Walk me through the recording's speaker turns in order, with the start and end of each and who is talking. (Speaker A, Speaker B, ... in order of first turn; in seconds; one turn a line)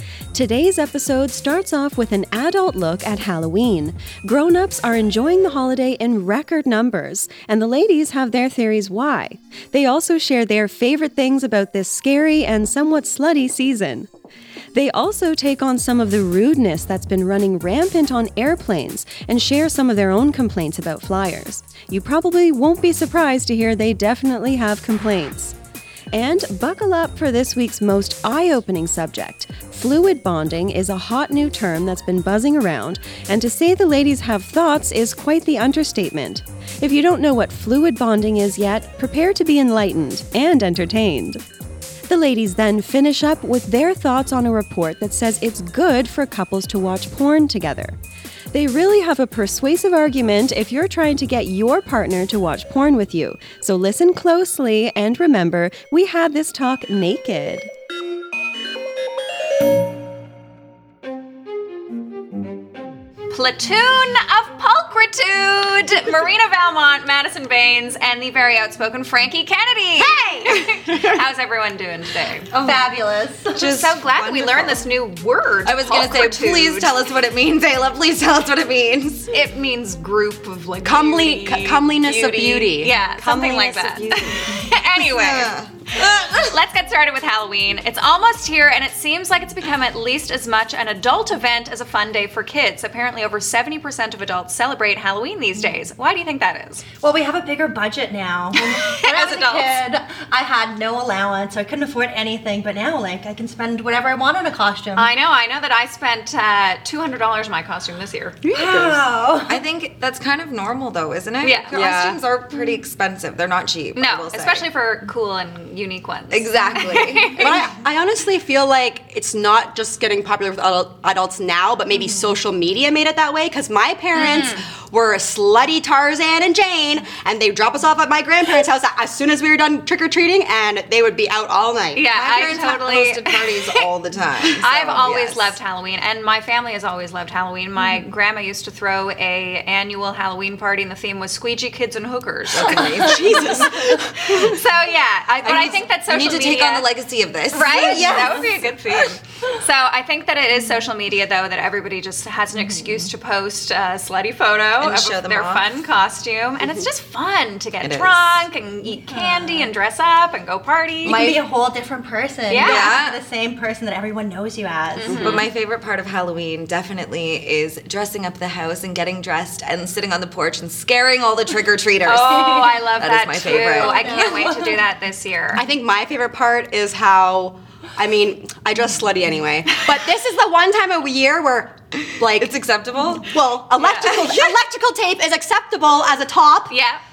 Speaker A: 0.3-14.1
Speaker A: 14.7-25.5
Speaker A: 26.1-41.4
Speaker A: 42.1-47.9
Speaker A: 48.5-57.7
Speaker B: 63.3-72.5
Speaker C: 70.0-70.5
Speaker D: 70.6-71.0
Speaker C: 72.5-73.6
Speaker E: 72.5-72.8
Speaker E: 73.5-74.8
Speaker B: 73.6-76.9
Speaker E: 75.6-79.3
Speaker B: 79.3-96.8
Speaker D: 80.8-82.6
Speaker C: 81.0-81.9
Speaker D: 83.2-84.1
Speaker E: 84.3-86.4
Speaker C: 97.0-105.1
Speaker B: 98.5-99.8
Speaker B: 105.0-108.4
Speaker D: 108.5-109.0
Speaker C: 108.5-109.6
Speaker E: 109.5-114.6
Speaker B: 111.4-112.2
Speaker B: 113.9-117.7
Speaker E: 116.3-117.4
Speaker D: 117.3-132.0
Speaker B: 124.1-124.6
Speaker C: 124.2-124.5
Speaker B: 131.9-133.8
Speaker E: 132.1-135.6
Speaker B: 134.4-143.2
Speaker E: 142.5-143.8
Speaker C: 143.0-143.9
Speaker D: 143.1-144.6
Speaker B: 144.2-146.9
Speaker D: 145.4-145.8
Speaker E: 145.5-148.5
Speaker B: 147.5-161.4
Speaker D: 147.9-148.3
Speaker E: 154.8-155.6
Speaker E: 157.8-158.4
Speaker C: 159.1-159.7
Speaker E: 161.0-161.4
Speaker C: 161.0-165.4
Speaker B: 162.5-162.9
Speaker E: 162.6-163.2
Speaker B: 165.0-165.5
Speaker E: 165.1-174.5
Speaker B: 172.0-175.6
Speaker C: 172.2-172.8
Speaker C: 173.4-174.8
Speaker D: 175.6-182.5
Speaker E: 182.0-183.3
Speaker D: 183.3-186.7
Speaker B: 183.7-184.2
Speaker E: 184.0-184.5
Speaker B: 186.7-187.0